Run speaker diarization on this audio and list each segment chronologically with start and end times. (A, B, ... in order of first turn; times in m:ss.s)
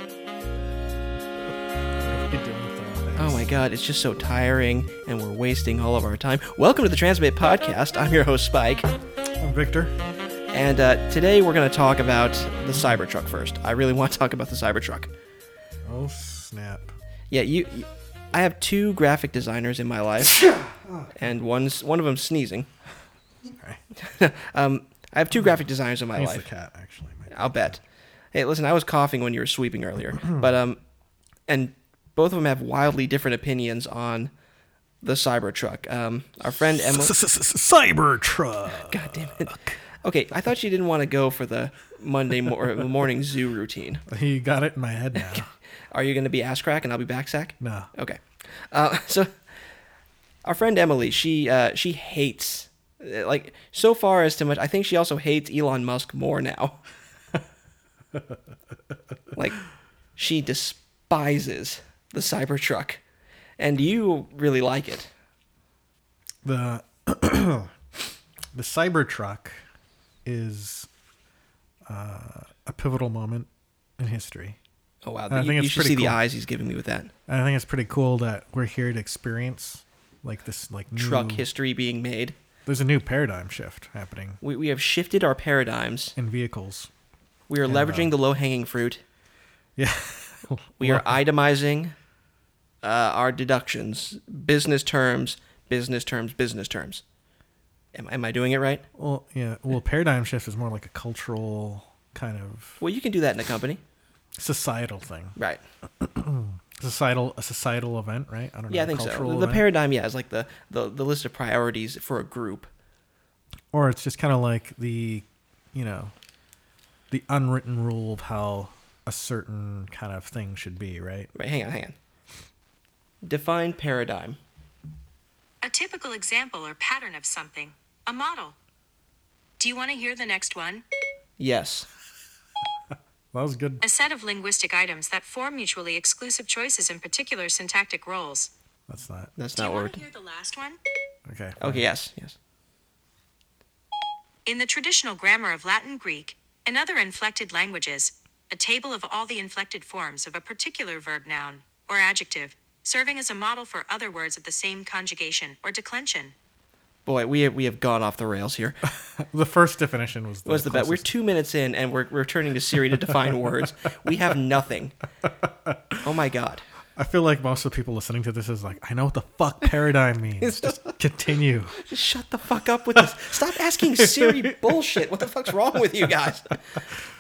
0:02.0-0:03.5 A
0:03.2-0:08.9 B
0:09.4-0:10.0 A
0:10.5-0:15.1 B
0:15.8-0:16.9 A
0:17.3-0:20.5 B
0:20.4-0:21.1 A
0:21.1-0:22.7 B
0:23.4-0:23.8 A
0:24.0-0:26.5 B
0:26.2-0:27.8 A
0:27.3-0:27.8 B
0:28.3-0:30.8 B
0:30.2-0:30.5 A
0:31.5-0:34.3 B
0:35.0-0:37.2 B
0:36.7-0:39.8 A
0:38.8-0:44.0 B
0:44.1-0:45.5 A
0:45.9-0:49.4 B
0:47.6-0:47.9 A
0:50.4-0:56.8 B
0:59.4-0:59.6 B
1:00.2-1:03.0 B
1:03.6-1:05.1 B
1:06.4-1:07.7 A
1:08.5-1:09.6 A
1:10.2-1:10.9 A
1:11.9-1:14.6 A
1:15.0-1:17.1 B
1:15.3-1:16.2 A
1:17.3-1:21.5 A
1:20.9-1:22.4 B
1:22.7-1:24.4 A
1:24.4-1:26.2 B
1:26.2-1:26.9 A
1:27.5-1:29.0 B
1:27.6-1:28.1 A
1:29.8-1:31.2 A
1:30.8-1:32.0 B
1:32.8-1:37.0 B
1:38.0-1:38.8 B
1:39.0-1:42.8 A
1:42.8-1:43.8 B
1:44.4-1:45.4 A
1:45.4-1:45.6 B
1:46.0-1:49.7 A
1:48.7-1:52.7 B
1:53.7-1:56.1 A
1:57.1-2:01.3 A
2:01.4-2:02.0 B
2:03.2-2:04.4 B
2:05.6-2:08.6 C
2:09.6-2:10.8 C
2:11.4-2:11.9 B
2:13.3-2:13.8 A
2:13.8-2:18.5 C
2:18.9-2:19.3 A
2:19.4-2:20.0 B
2:19.6-2:20.8 C
2:21.3-2:21.8 A
2:21.6-2:22.4 B
2:24.4-2:36.3 C
2:37.1-2:38.8 B
2:38.9-2:41.1 A
2:40.4-2:45.0 B
2:45.4-2:46.0 A
2:46.0-2:46.6 B
2:47.0-2:51.8 A
2:50.4-2:51.0 B
2:51.8-2:56.8 B
2:53.7-2:55.5 A